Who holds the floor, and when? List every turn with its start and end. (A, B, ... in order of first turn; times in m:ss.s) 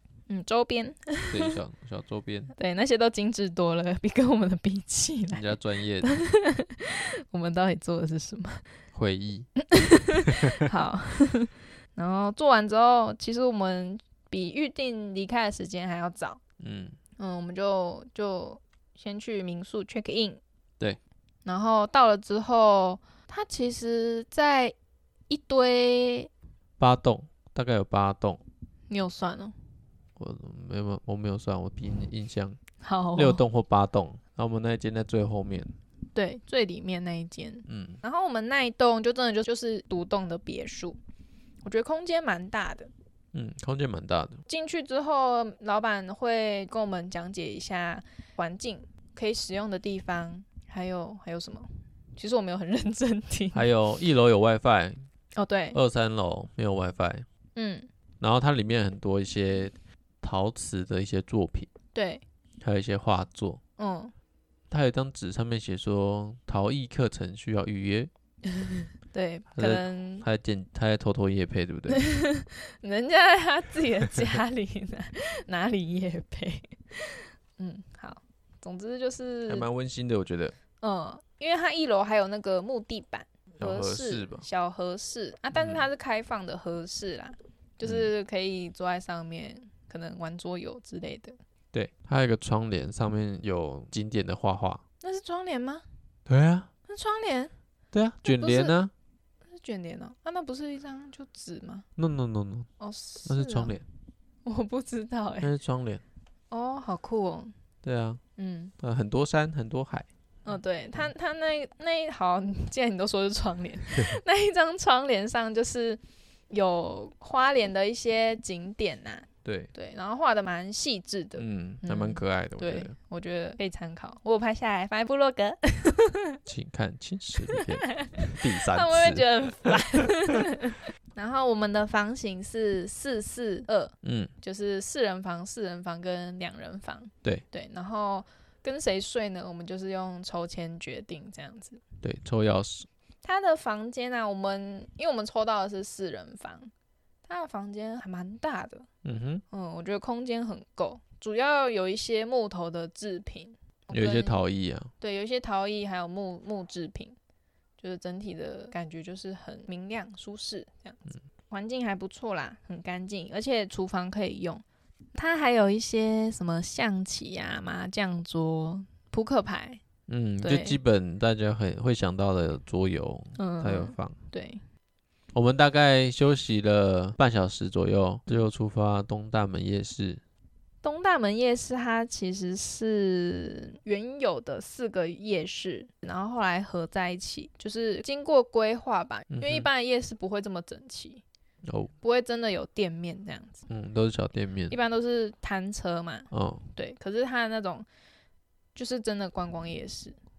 0:00.3-0:01.6 A
0:01.3-0:02.5 B
0:02.6-0:05.5 A
0:05.3-0:06.1 B
0:06.0-0:08.7 A
0:08.9-0:09.5 B
0:09.6-0:16.4 A
0:10.3-0:10.7 B
0:16.6-0:17.0 B
0:17.2-0:20.4 A
0:21.4-0:24.7 A
0:25.3-0:26.3 A
0:26.8-0:28.4 B
0:28.9-0:29.6 A
0:30.2-0:32.6 B
0:32.8-0:33.4 A
0:33.2-0:35.8 B
0:36.1-0:41.0 A
0:37.7-0:38.0 B
0:41.6-0:42.9 A
0:43.3-0:44.4 B
0:44.5-0:53.7 A
0:53.5-0:55.0 B
0:55.4-0:55.8 A
0:55.7-0:57.3 B
0:57.6-0:57.9 A
0:58.2-1:01.7 B
1:01.9-1:02.2 A
1:02.6-1:03.6 B
1:03.8-1:04.1 A
1:04.7-1:08.1 B
1:08.5-1:10.2 A
1:09.5-1:12.0 B
1:11.9-1:19.7 A
1:19.5-1:20.5 B
1:20.8-1:31.4 A
1:23.6-1:24.5 B
1:25.5-1:25.8 B
1:27.8-1:28.1 B
1:31.7-1:34.8 B
1:35.0-1:35.8 A
1:36.3-1:36.7 B
1:36.9-1:37.5 A
1:37.9-1:38.9 B
1:38.2-1:38.8 A
1:39.5-1:41.9 A
1:42.0-1:42.7 B
1:42.8-1:43.8 A
1:43.3-1:43.8 B
1:44.4-1:45.5 A
1:45.4-1:46.0 B
1:46.5-1:47.5 A
1:47.8-1:48.2 B
1:48.4-1:48.7 A
1:48.8-1:50.1 B
1:50.4-1:56.0 A
1:56.5-2:06.4 A
1:59.4-1:59.7 B
2:01.4-2:02.9 B
2:06.5-2:10.0 B
2:07.5-2:21.8 A
2:14.0-2:14.3 B
2:22.0-2:22.9 B
2:23.2-2:26.7 A
2:27.3-2:28.9 A
2:29.0-2:29.4 B
2:29.5-2:34.4 A
2:33.9-2:34.9 B
2:35.0-2:37.2 A
2:37.8-2:44.6 A
2:45.2-2:49.8 A
2:50.1-2:54.2 B
2:50.4-2:50.8 A
2:53.4-2:54.6 A
2:55.3-3:00.2 B
3:00.8-3:11.2 A
3:09.3-3:09.7 B
3:11.7-3:11.9 B
3:12.0-3:13.7 A
3:13.7-3:14.8 B
3:14.7-3:17.9 A
3:16.3-3:16.6 B
3:18.8-3:20.2 A